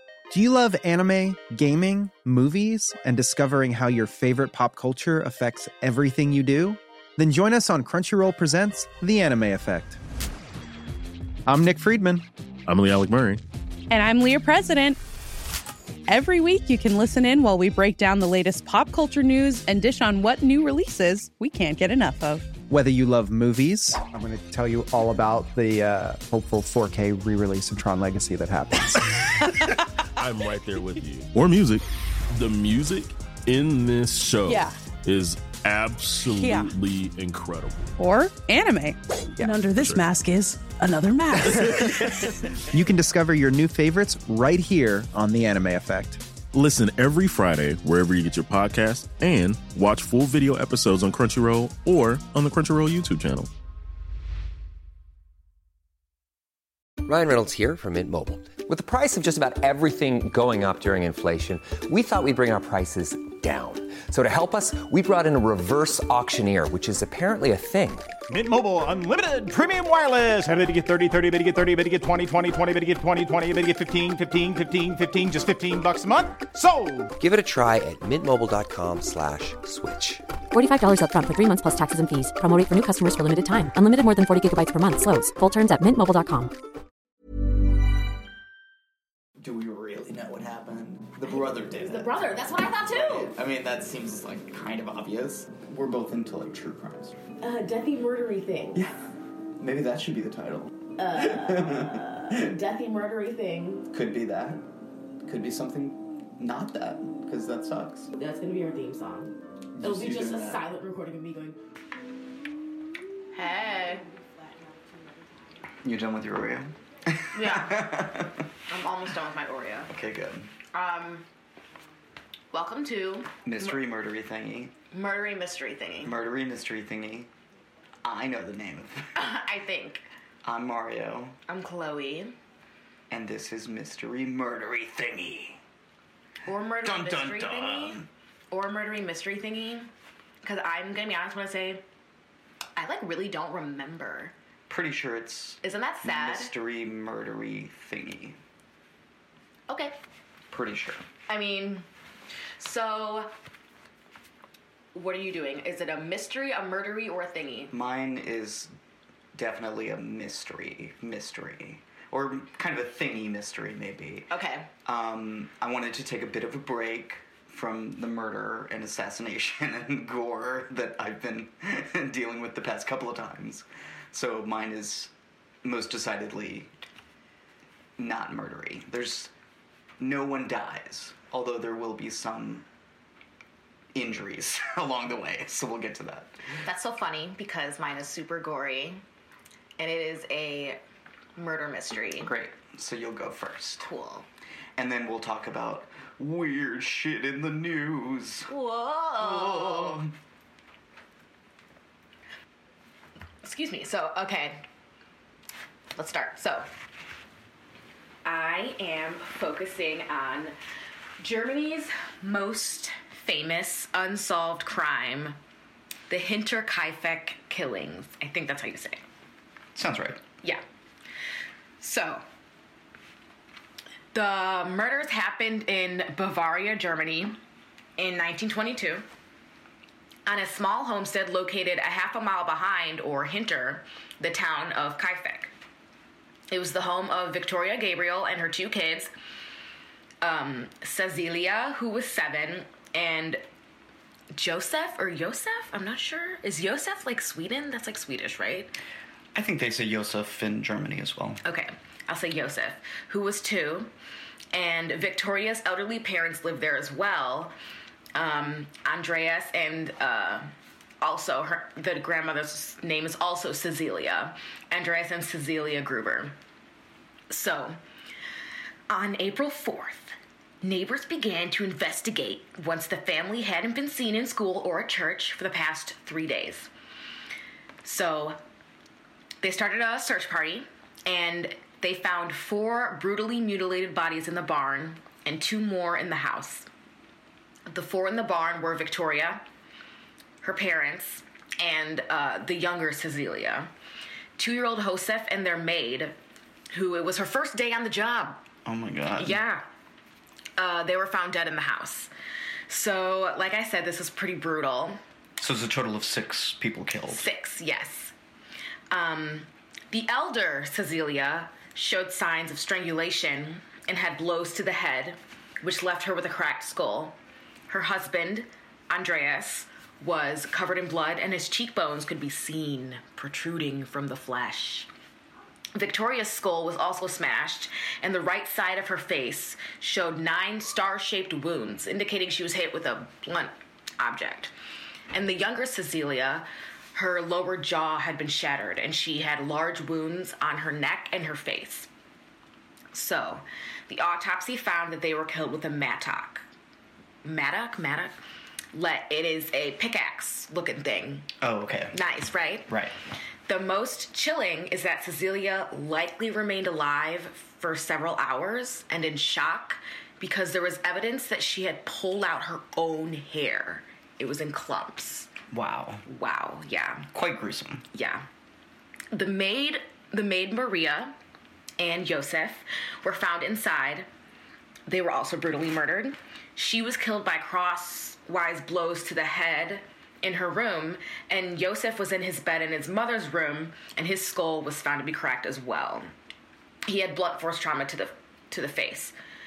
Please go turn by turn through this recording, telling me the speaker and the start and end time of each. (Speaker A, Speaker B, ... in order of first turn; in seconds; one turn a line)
Speaker A: 0.3-10.0
Speaker A: 11.5-12.3
Speaker B: 12.7-13.4
Speaker C: 13.9-15.0
Speaker C: 16.1-22.5
Speaker A: 22.7-29.5
Speaker B: 30.2-37.9
Speaker C: 34.5-34.8
Speaker C: 36.3-36.7
Speaker C: 38.0-39.0
Speaker D: 39.4-42.4
Speaker B: 39.7-40.1
Speaker A: 42.7-46.2
Speaker B: 46.5-53.5
Speaker E: 57.0-68.1
Speaker F: 68.3-77.1
Speaker E: 77.2-80.3
Speaker G: 80.5-86.5
Speaker H: 89.4-97.2
Speaker I: 91.2-93.3
Speaker I: 97.4-98.8
Speaker H: 98.8-102.5
Speaker I: 101.0-103.9
Speaker H: 103.9-104.7
Speaker H: 105.2-108.1
Speaker I: 108.1-111.6
Speaker H: 109.8-110.6
Speaker I: 113.3-114.0
Speaker H: 115.8-118.5
Speaker I: 117.3-117.9
Speaker I: 118.7-119.9
Speaker H: 119.9-120.5
Speaker I: 120.7-121.2
Speaker I: 122.5-123.8
Speaker H: 123.4-124.7
Speaker I: 124.9-126.2
Speaker H: 126.0-127.3
Speaker H: 128.0-129.2
Speaker I: 129.2-130.1
Speaker H: 130.4-131.4
Speaker I: 131.5-132.4
Speaker H: 133.1-135.6
Speaker I: 136.5-139.9
Speaker H: 136.8-138.1
Speaker I: 140.4-141.8
Speaker I: 142.8-144.3
Speaker H: 144.7-148.4
Speaker I: 145.6-146.5
Speaker I: 149.7-149.9
Speaker H: 150.5-151.1
Speaker I: 151.3-151.9
Speaker I: 152.6-153.3
Speaker I: 154.9-157.7
Speaker H: 157.7-158.7
Speaker H: 159.3-164.3
Speaker I: 164.3-164.7
Speaker H: 164.8-175.1
Speaker H: 175.6-176.7
Speaker H: 178.0-179.3
Speaker H: 180.0-182.7
Speaker H: 183.9-186.3
Speaker I: 186.5-189.0
Speaker I: 189.8-190.8
Speaker I: 191.4-192.3
Speaker H: 192.2-193.9
Speaker I: 193.8-194.3
Speaker H: 194.8-198.5
Speaker I: 198.5-200.0
Speaker H: 199.2-200.1
Speaker I: 203.4-204.6
Speaker I: 205.9-206.7
Speaker I: 208.2-210.6
Speaker I: 211.2-215.4
Speaker I: 216.1-219.1
Speaker H: 219.8-220.2
Speaker I: 221.8-222.2
Speaker I: 224.1-227.4
Speaker I: 228.0-229.1
Speaker I: 230.3-235.5
Speaker I: 236.5-239.1
Speaker I: 240.2-243.4
Speaker I: 244.3-248.8
Speaker H: 249.3-251.4
Speaker I: 251.4-253.9
Speaker I: 254.5-257.5
Speaker I: 258.1-266.4
Speaker I: 267.3-267.8
Speaker I: 268.9-276.7
Speaker I: 277.8-278.4
Speaker I: 279.4-286.7
Speaker I: 287.7-289.4
Speaker I: 290.4-293.7
Speaker I: 294.4-296.2
Speaker I: 296.7-298.4
Speaker H: 298.6-299.4
Speaker I: 299.2-299.6
Speaker I: 300.6-302.1
Speaker I: 302.7-305.0
Speaker H: 305.4-307.3
Speaker I: 307.1-308.1
Speaker I: 308.9-317.1
Speaker I: 317.7-324.9
Speaker I: 325.8-334.5
Speaker I: 335.1-341.9
Speaker I: 342.9-346.4
Speaker I: 347.2-348.1
Speaker I: 348.7-351.3
Speaker H: 351.4-352.0
Speaker I: 351.9-352.7
Speaker H: 352.7-352.9
Speaker I: 353.5-365.3
Speaker H: 365.5-366.1
Speaker I: 366.1-367.1
Speaker H: 367.1-367.9
Speaker I: 367.9-368.3
Speaker I: 369.1-371.2
Speaker I: 371.8-374.1
Speaker I: 374.9-386.1
Speaker I: 386.9-389.1